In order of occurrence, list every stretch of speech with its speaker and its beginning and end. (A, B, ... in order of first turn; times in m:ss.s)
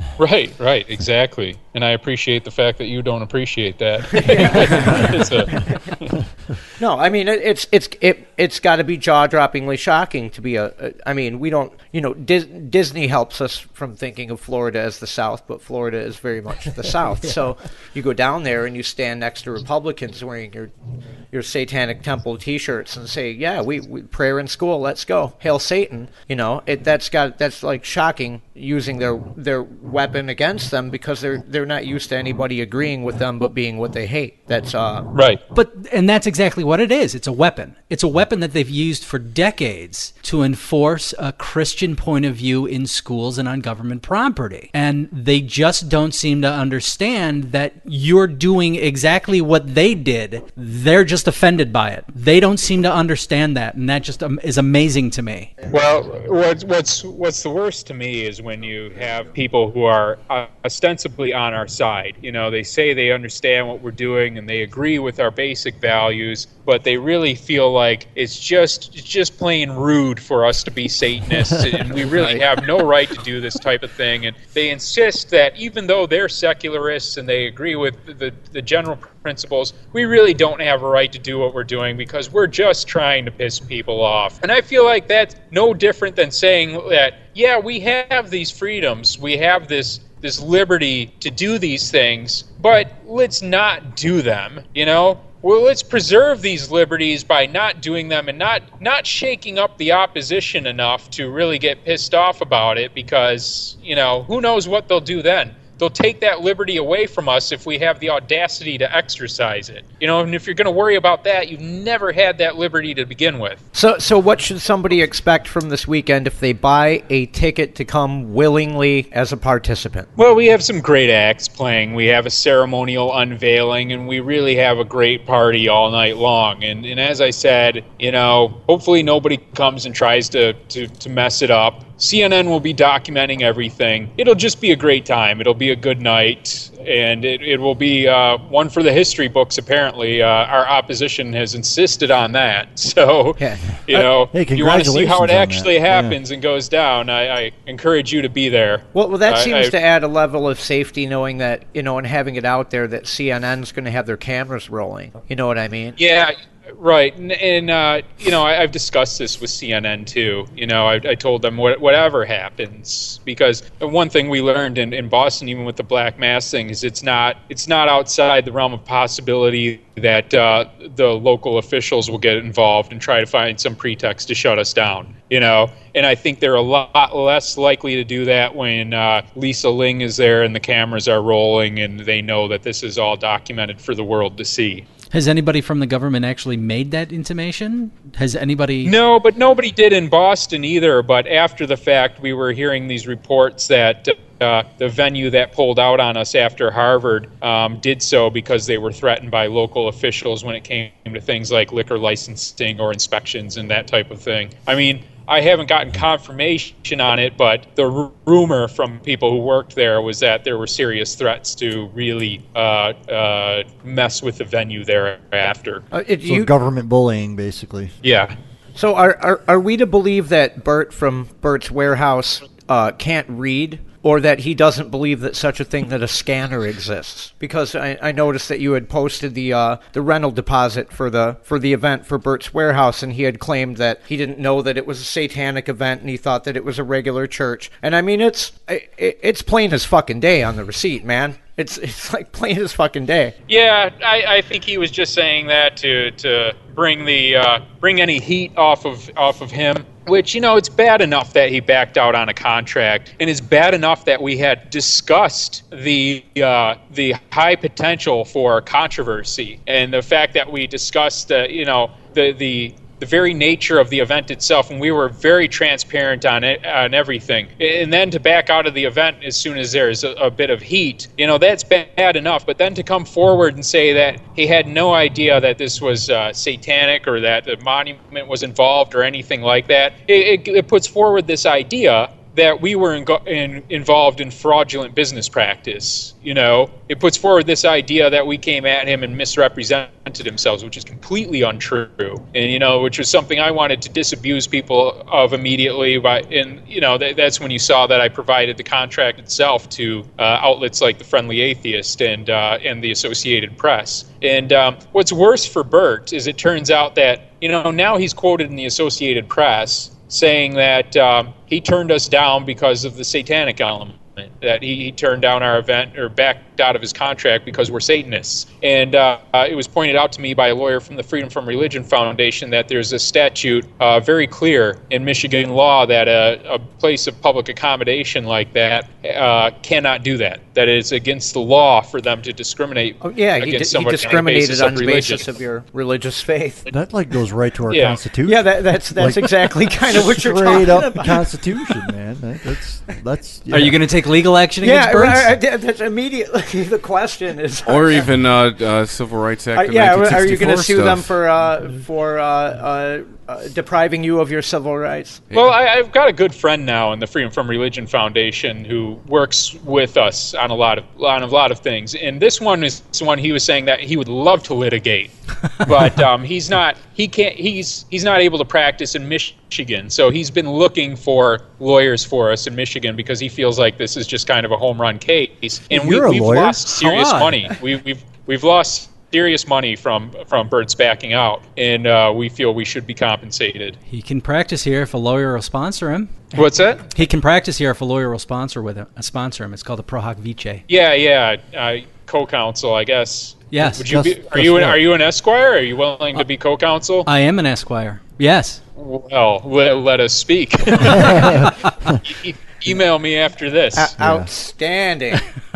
0:00.2-0:05.6 A
0:04.1-0:05.8 B
0:06.8-0:20.7 B
0:21.3-0:35.1 B
0:35.1-0:35.4 A
0:35.5-0:55.5 C
0:55.7-1:53.6 A
1:12.0-1:12.4 B
1:53.7-2:00.1 B
2:00.2-2:29.7 A
2:23.4-2:23.6 B
2:23.9-2:26.2 D
2:28.9-2:36.0 B
2:36.0-3:04.8 A
3:05.1-3:08.9 C
3:08.8-3:35.8 A
3:35.9-3:36.5 B
3:36.2-3:37.9 D
3:38.0-3:38.3 A
3:38.7-4:03.3 B
4:03.5-5:35.3 A
5:33.0-5:36.7 B
5:36.7-5:43.8 D
5:37.7-5:38.0 A
5:38.2-5:41.3 B
5:43.5-5:45.3 C
5:44.6-5:48.1 B
5:47.6-5:51.1 E
5:49.5-5:55.2 B
5:55.3-6:23.8 A
6:15.7-6:16.6 D
6:16.7-6:17.4 C
6:23.9-6:26.2 C
6:26.3-6:26.8 A
6:26.9-6:30.6 C
6:30.7-6:37.1 A
6:33.5-6:34.1 C
6:33.9-6:34.8 D
6:37.1-6:38.6 C
6:38.8-6:43.9 A
6:41.1-6:41.9 D
6:43.7-6:45.2 B
6:44.0-6:44.3 D